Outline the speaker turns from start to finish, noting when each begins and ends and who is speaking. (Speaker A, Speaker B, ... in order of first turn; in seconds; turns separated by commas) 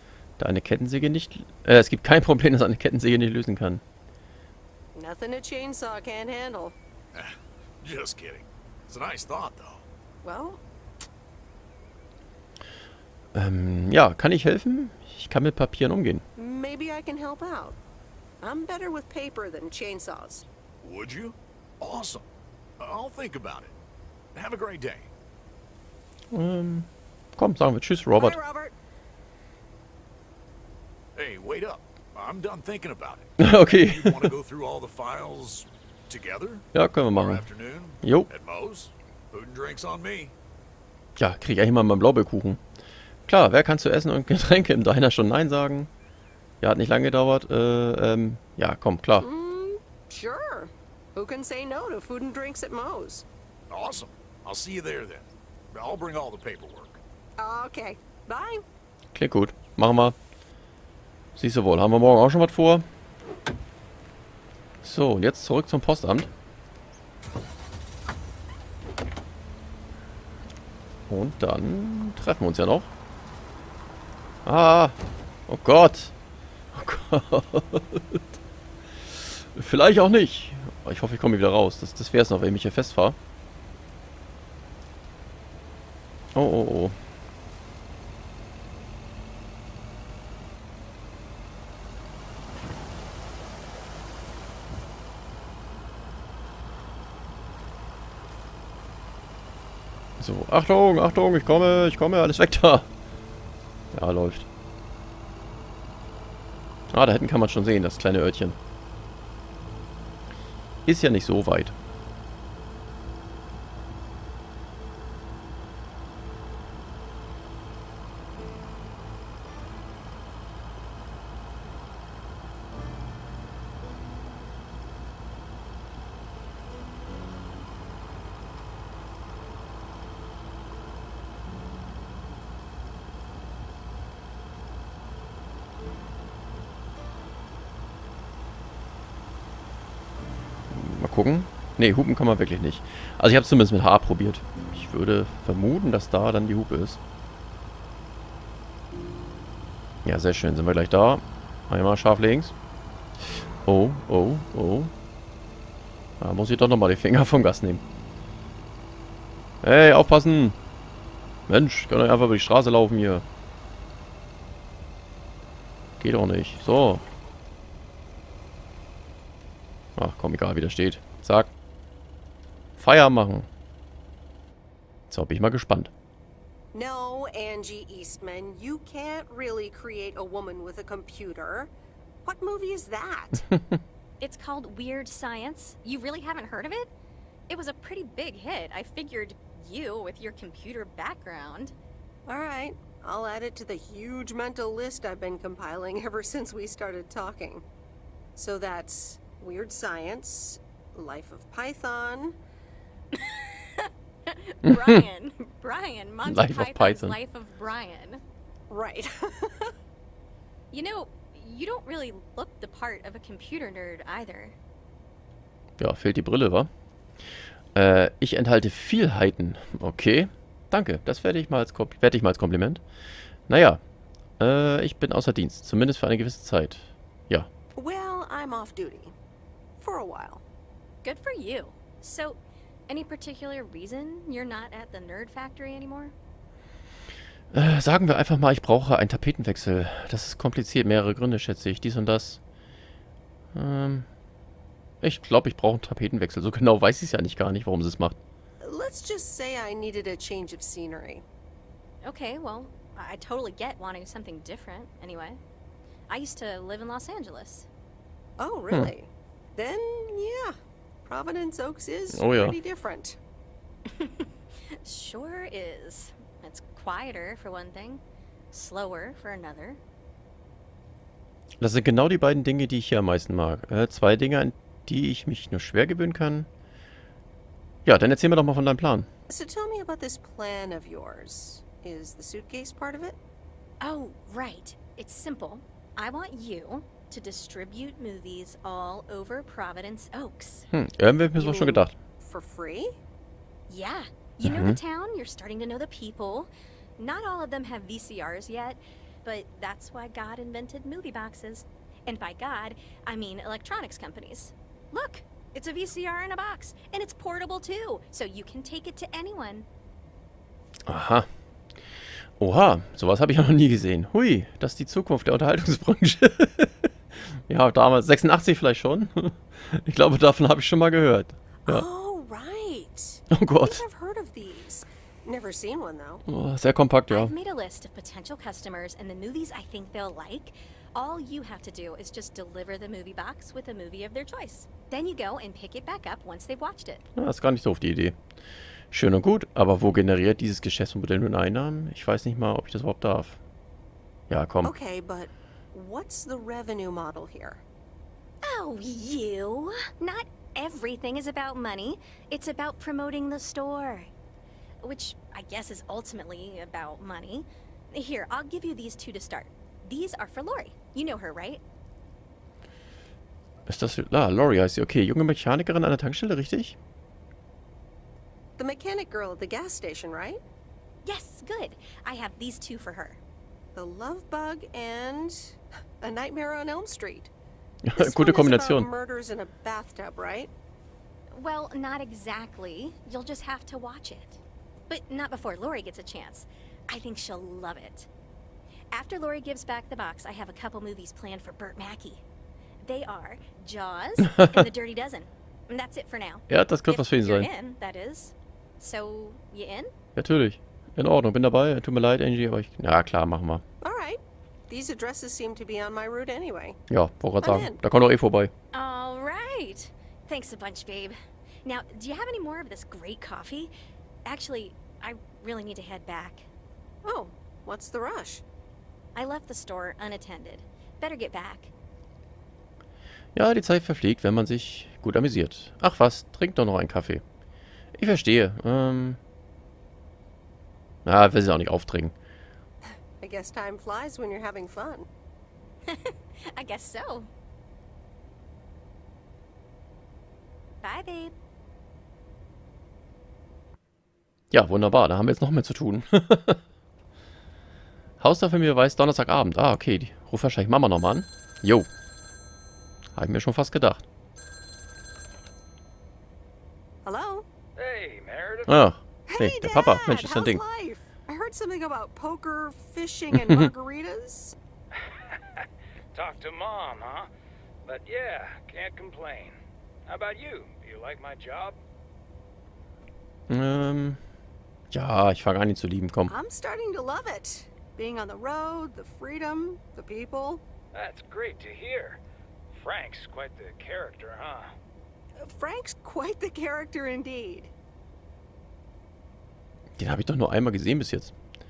Speaker A: 0.4-3.8, Speaker B: 4.9-6.8, Speaker C: 7.1-9.8, Speaker B: 10.2-10.6, Speaker A: 13.3-16.2, Speaker B: 16.4-17.8, Speaker B: 18.4-20.5, Speaker C: 20.8-22.3, Speaker C: 22.8-23.8, Speaker C: 24.3-25.1, Speaker A: 26.3-28.4, Speaker B: 28.1-28.8, Speaker C: 31.1-40.3, Speaker A: 33.4-34.3, Speaker A: 36.7-37.5, Speaker A: 38.0-38.3, Speaker A: 41.2-42.6, Speaker A: 43.3-45.9, Speaker A: 46.6-49.3, Speaker B: 49.2-53.3, Speaker C: 53.7-57.0, Speaker B: 57.4-58.6, Speaker A: 59.1-60.2, Speaker A: 61.4-62.9, Speaker A: 64.8-66.3, Speaker A: 71.1-72.9, Speaker A: 74.5-75.0, Speaker A: 75.5-76.1, Speaker A: 76.7-78.2, Speaker A: 79.1-83.2, Speaker A: 86.3-87.0, Speaker A: 100.2-102.9, Speaker A: 103.9-104.5, Speaker A: 106.9-108.6, Speaker A: 110.8-111.8, Speaker A: 140.7-147.0, Speaker A: 150.0-152.5, Speaker A: 153.7-154.9, Speaker A: 156.2-157.8, Speaker A: 159.6-160.6, Speaker A: 161.5-163.2, Speaker A: 166.0-167.0, Speaker A: 170.0-171.5, Speaker A: 172.8-173.5, Speaker A: 175.1-175.9, Speaker B: 176.7-181.7, Speaker B: 182.2-183.4, Speaker D: 184.2-186.9, Speaker D: 187.5-191.8, Speaker B: 192.3-197.6, Speaker B: 198.4-202.4, Speaker D: 203.1-208.2, Speaker A: 204.7-205.0, Speaker A: 206.2-207.2, Speaker B: 208.7-209.7, Speaker D: 210.7-214.6, Speaker A: 215.8-216.7, Speaker A: 217.8-222.8, Speaker A: 223.5-223.8, Speaker A: 224.4-227.5, Speaker B: 227.8-229.1, Speaker B: 229.8-230.4, Speaker D: 231.0-236.1, Speaker A: 237.5-242.4, Speaker A: 243.5-244.1, Speaker A: 245.0-248.2, Speaker B: 248.6-251.2, Speaker D: 252.0-255.4, Speaker D: 256.1-257.7, Speaker B: 258.4-263.2, Speaker A: 262.1-262.6, Speaker D: 264.0-264.3, Speaker D: 264.8-269.8, Speaker A: 271.6-276.5, Speaker A: 277.9-279.1, Speaker B: 279.3-283.2, Speaker D: 283.8-290.7, Speaker A: 290.7-291.9, Speaker B: 291.4-293.0, Speaker D: 293.7-309.7, Speaker A: 294.4-294.8, Speaker A: 310.9-311.3, Speaker A: 312.4-316.9, Speaker A: 317.5-321.9, Speaker B: 321.7-326.2, Speaker A: 323.3-323.8, Speaker A: 326.3-327.3, Speaker D: 327.1-337.0, Speaker A: 337.1-338.2, Speaker A: 338.9-343.4, Speaker A: 344.3-344.7, Speaker B: 344.6-347.6, Speaker D: 348.4-354.1, Speaker D: 354.8-361.6, Speaker A: 363.7-366.8, Speaker B: 368.6-370.4, Speaker D: 371.1-373.2, Speaker B: 373.8-377.3, Speaker A: 377.8-378.9, Speaker B: 378.0-380.5, Speaker D: 381.4-388.1, Speaker D: 388.9-392.2, Speaker D: 392.8-399.9, Speaker A: 396.5-397.5, Speaker A: 400.2-403.6, Speaker B: 403.8-406.8, Speaker A: 406.9-408.5, Speaker B: 407.4-407.8, Speaker D: 408.7-413.7, Speaker D: 414.3-416.5, Speaker B: 417.0-418.4, Speaker D: 419.1-421.7, Speaker A: 423.4-427.2, Speaker A: 427.9-429.2, Speaker A: 431.1-432.1, Speaker B: 433.2-435.1, Speaker D: 435.9-437.3, Speaker D: 440.8-441.3, Speaker A: 444.5-446.6, Speaker A: 448.2-451.9, Speaker A: 453.2-454.0, Speaker B: 457.1-457.5, Speaker E: 457.8-458.9, Speaker A: 458.7-460.6, Speaker B: 459.3-464.6, Speaker E: 465.0-467.3, Speaker E: 467.9-469.6, Speaker E: 470.1-471.8, Speaker A: 473.5-474.2, Speaker A: 474.9-476.3, Speaker B: 476.3-480.6, Speaker E: 480.9-482.2, Speaker E: 482.7-484.8, Speaker B: 485.4-487.7, Speaker A: 490.0-491.3